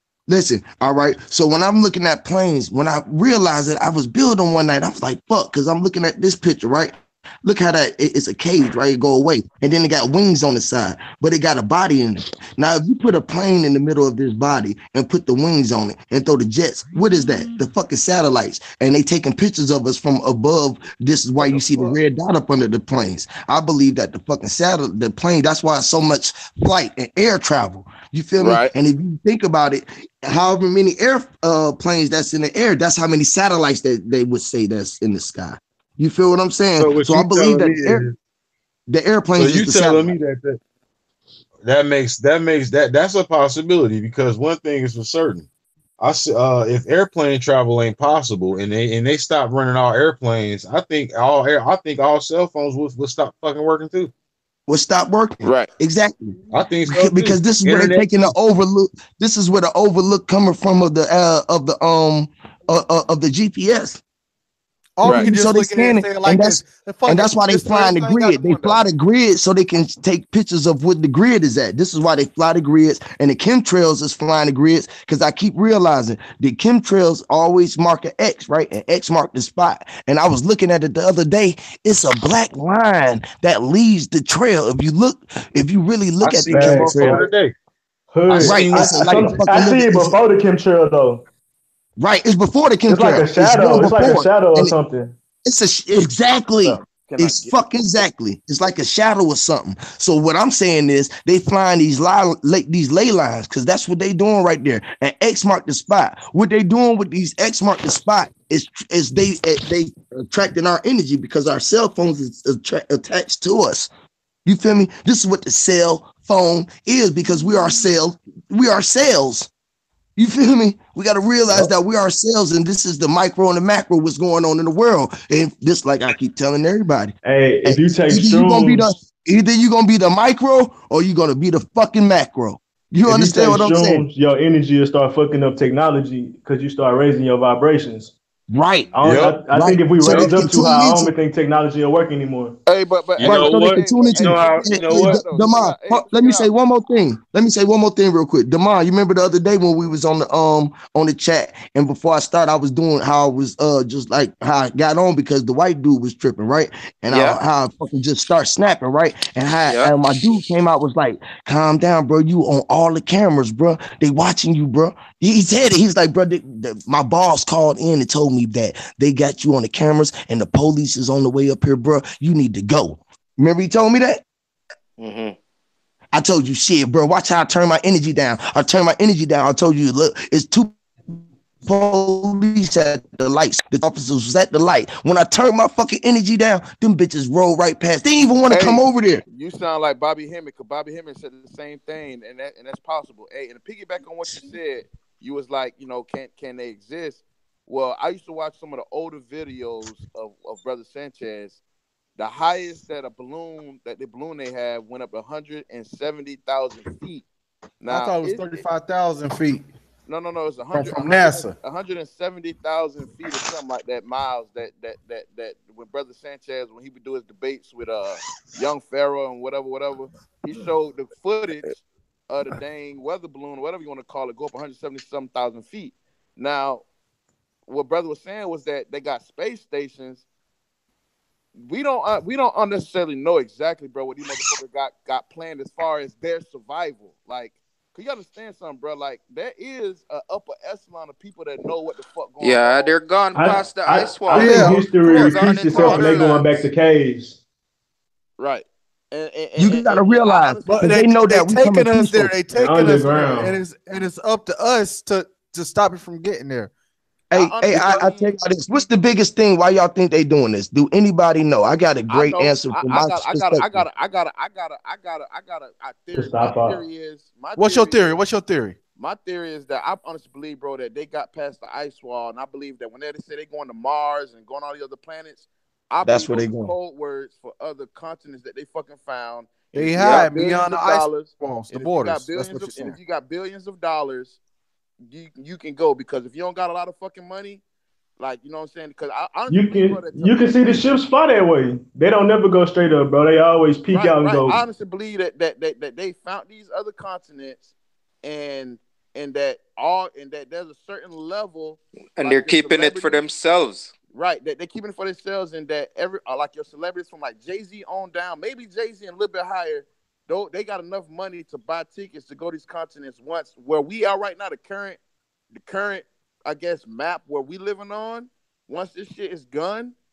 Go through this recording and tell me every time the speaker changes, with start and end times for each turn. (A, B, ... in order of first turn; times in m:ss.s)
0:00.3-0:38.0 A
0:21.4-0:21.9 B
0:28.4-0:28.7 B
0:36.8-0:38.2 C
0:38.9-0:40.2 A
0:39.4-0:40.6 C
0:41.6-0:45.4 C
0:46.0-0:54.1 C
0:54.7-1:04.0 A
0:55.4-0:55.7 B
0:56.5-0:58.3 C
1:05.0-1:08.8 D
1:05.0-1:27.3 A
1:05.0-1:05.3 B
1:26.2-1:27.5 C
1:26.5-1:27.3 E
1:28.1-1:31.2 E
1:28.3-1:29.4 C
1:28.3-1:30.2 A
1:32.0-1:34.8 A
1:32.9-1:35.1 E
1:35.4-1:53.9 A
1:37.1-1:37.3 B
1:37.2-1:37.4 C
1:54.4-1:59.5 A
2:00.2-2:14.0 A
2:07.2-2:08.8 E
2:13.0-2:18.1 E
2:18.5-2:21.1 A
2:19.0-2:22.6 E
2:19.0-2:19.4 C
2:20.0-2:20.3 C
2:22.6-2:26.5 B
2:23.2-2:25.2 C
2:23.2-2:54.2 A
2:37.1-2:37.4 F
2:55.0-2:55.4 F
2:56.1-3:00.8 A
3:01.6-3:09.2 A
3:08.5-3:21.6 B
3:22.2-3:27.2 B
3:27.8-3:28.6 B
3:27.9-3:29.7 D
3:30.1-3:46.8 B
3:30.7-3:31.5 D
3:47.7-3:50.2 B
3:51.6-4:02.9 B
4:02.4-4:06.2 F
4:03.3-4:07.4 E
4:04.3-4:06.4 D
4:05.0-4:06.6 B
4:08.4-4:11.0 B
4:09.6-4:12.3 A
4:10.7-4:16.7 D
4:12.5-4:13.6 E
4:17.3-4:18.3 B
4:17.3-4:23.8 A
4:22.1-4:28.2 B
4:26.1-4:26.8 E
4:27.6-4:28.8 D
4:29.0-4:44.4 B
4:36.0-4:36.7 A
4:39.7-4:42.3 D
4:40.0-4:40.3 F
4:42.4-4:43.0 A
4:45.0-4:47.6 B
4:48.2-4:50.9 B
4:49.5-4:54.6 E
4:53.9-4:57.7 B
4:58.2-5:03.2 B
5:02.2-5:03.9 F
5:04.1-5:15.0 B
5:15.5-5:19.9 B